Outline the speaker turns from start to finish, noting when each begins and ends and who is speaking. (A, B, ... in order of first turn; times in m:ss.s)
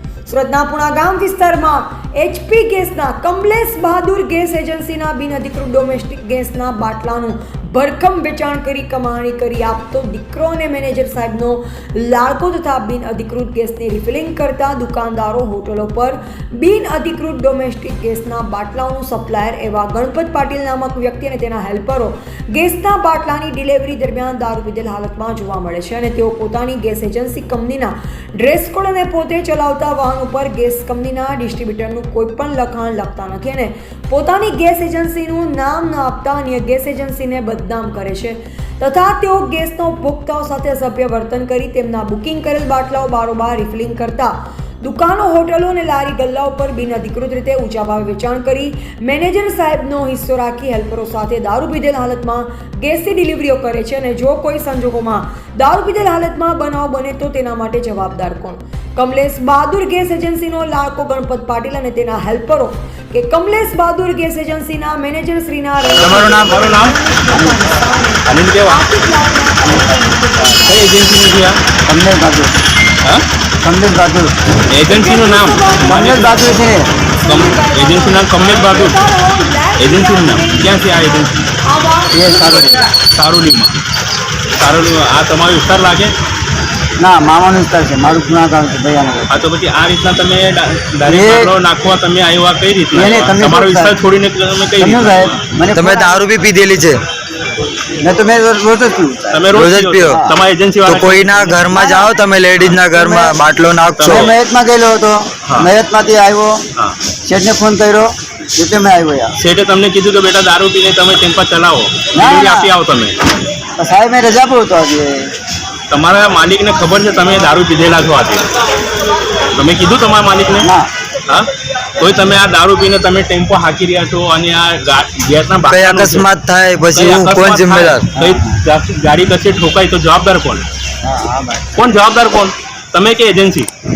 0:00.3-1:11.1 A
1:06.0-1:07.0 B
1:07.3-1:07.6 C
1:08.2-1:08.8 B
1:10.6-1:11.6 B
1:11.8-1:12.6 C
1:13.6-1:14.3 C
1:14.7-1:16.4 B
1:14.8-1:22.4 A
1:15.9-1:16.9 C
1:17.2-1:19.0 B
1:19.8-1:21.4 B
1:22.1-1:22.8 C
1:22.3-1:23.7 B
1:24.6-1:26.1 B
1:27.0-1:29.3 C
1:29.3-1:35.4 B
1:31.0-1:31.5 C
1:32.9-1:33.9 C
1:34.8-1:36.2 C
1:35.7-1:37.0 D
1:38.0-1:39.4 C
1:39.3-1:41.8 B
1:39.5-1:40.2 D
1:40.8-1:44.3 D
1:42.6-1:42.8 B
1:43.0-1:43.4 C
1:43.9-1:44.3 B
1:44.0-1:46.6 C
1:47.2-1:49.3 C
1:49.4-1:53.2 B
1:52.1-1:52.7 C
1:53.8-1:55.3 C
1:55.9-1:58.5 B
1:59.5-2:00.7 B
2:00.6-2:00.9 C
2:01.3-2:06.3 B
2:05.7-2:08.1 D
2:06.9-2:10.6 B
2:08.1-2:08.6 C
2:11.0-2:11.8 C
2:11.8-2:13.7 B